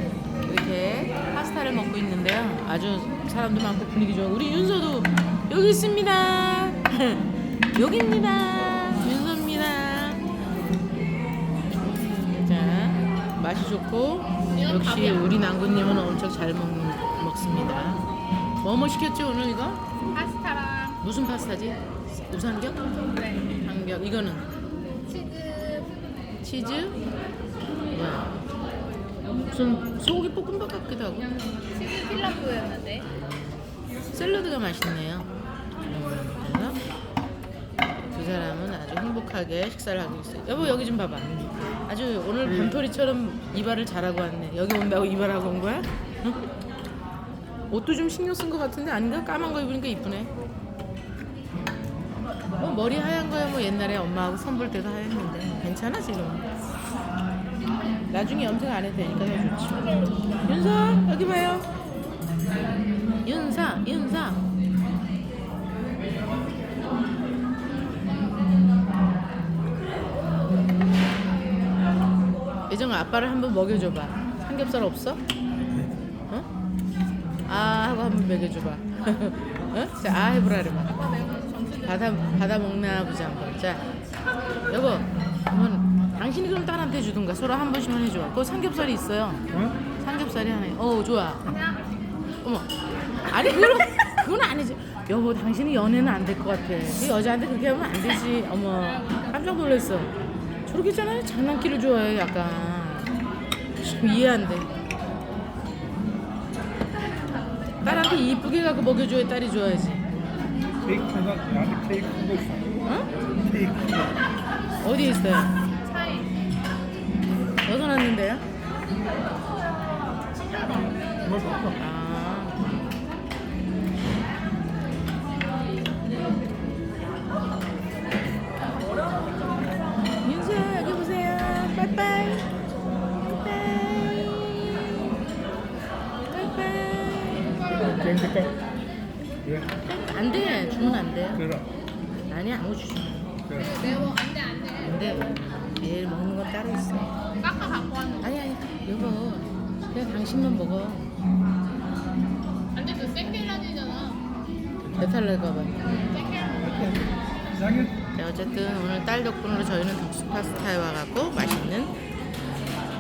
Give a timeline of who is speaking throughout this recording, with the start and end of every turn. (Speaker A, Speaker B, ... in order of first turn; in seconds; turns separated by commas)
Speaker A: 0.5-10.2, Speaker A: 11.8-18.0, Speaker B: 14.5-15.3, Speaker A: 18.6-19.8, Speaker B: 20.1-21.0, Speaker A: 21.0-22.8, Speaker B: 23.1-23.4, Speaker A: 23.5-24.5, Speaker B: 25.1-26.1, Speaker A: 26.4-27.0, Speaker A: 27.9-28.3, Speaker A: 29.5-31.3, Speaker B: 31.7-33.1, Speaker A: 34.1-35.3, Speaker A: 35.9-36.8, Speaker A: 38.1-46.4, Speaker A: 47.7-50.3, Speaker A: 52.6-56.5, Speaker A: 58.1-61.6, Speaker A: 63.2-64.4, Speaker A: 72.7-75.2, Speaker A: 77.5-81.0, Speaker B: 81.0-82.1, Speaker A: 81.8-83.8, Speaker A: 84.7-89.4, Speaker A: 90.0-91.5, Speaker B: 91.5-92.0, Speaker A: 92.4-92.7, Speaker A: 93.2-100.1, Speaker B: 98.9-99.3, Speaker A: 100.7-103.1, Speaker A: 103.8-104.7, Speaker A: 107.8-110.0, Speaker C: 110.8-112.8, Speaker C: 113.4-114.1, Speaker A: 114.8-115.5, Speaker B: 115.9-116.3, Speaker A: 117.6-118.4, Speaker B: 120.4-120.9, Speaker C: 121.3-121.7, Speaker A: 121.8-122.7, Speaker A: 130.2-132.5, Speaker A: 133.2-135.1, Speaker A: 136.3-137.9, Speaker B: 137.6-138.0, Speaker C: 137.9-138.5, Speaker C: 139.4-139.7, Speaker A: 139.8-141.4, Speaker C: 141.4-141.7, Speaker A: 142.3-143.1, Speaker C: 143.5-143.8, Speaker B: 143.6-145.0, Speaker A: 144.8-147.1, Speaker B: 147.4-148.4, Speaker A: 148.2-151.1, Speaker B: 152.7-154.2, Speaker A: 155.0-155.8, Speaker B: 155.8-156.9, Speaker C: 156.6-157.9, Speaker A: 158.1-161.9